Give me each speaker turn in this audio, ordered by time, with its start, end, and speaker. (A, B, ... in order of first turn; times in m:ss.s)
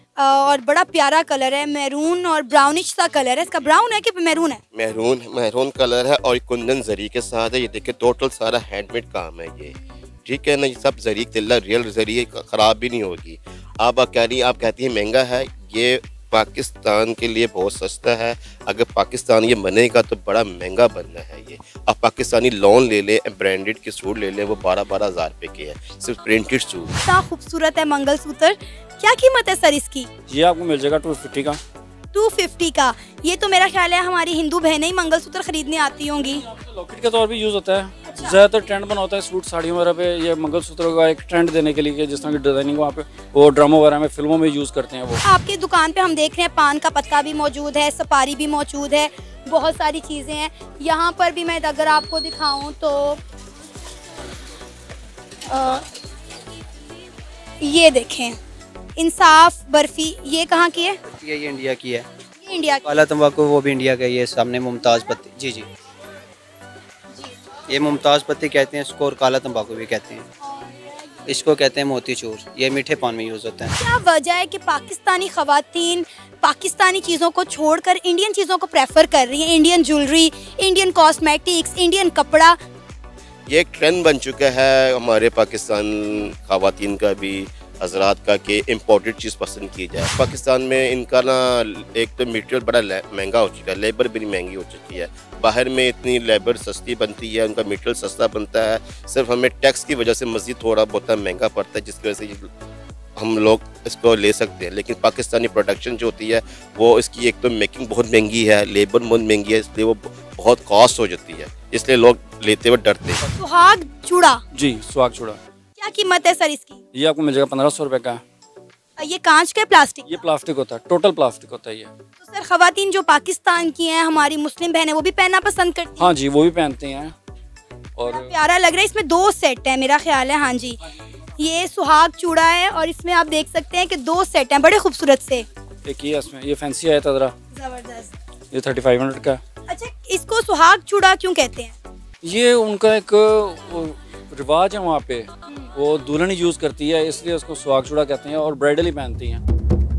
0:00.2-0:04.6 A
0:04.7-0:27.0 B
0:27.0-0:30.1 A
0:30.3-0:31.6 C
0:32.1-0:36.4 A
0:36.4-0:45.2 C
0:38.0-0:38.4 A
0:45.2-0:53.2 A
0:55.5-0:55.9 A
0:57.6-0:58.4 A
0:59.0-1:01.0 A
1:01.1-1:02.1 D
1:02.4-1:02.8 A
1:02.8-1:05.7 D
1:07.7-1:10.3 D
1:10.5-1:10.8 A
1:11.2-1:13.7 D
1:13.8-1:22.6 A
1:23.5-1:42.5 B
1:43.2-1:53.2 B
1:53.3-1:54.4 A
1:54.5-1:55.4 C
1:55.8-1:56.8 A
1:56.9-1:58.2 C
1:59.0-2:00.2 A
2:00.1-2:01.9 C
2:02.2-2:06.1 A
2:06.0-2:07.1 C
2:08.0-2:08.3 C
2:08.1-2:10.8 A
2:11.4-2:15.5 A
2:15.8-2:17.3 C
2:17.5-2:18.1 A
2:18.5-2:19.4 C
2:19.7-2:21.7 A
2:22.2-2:29.4 C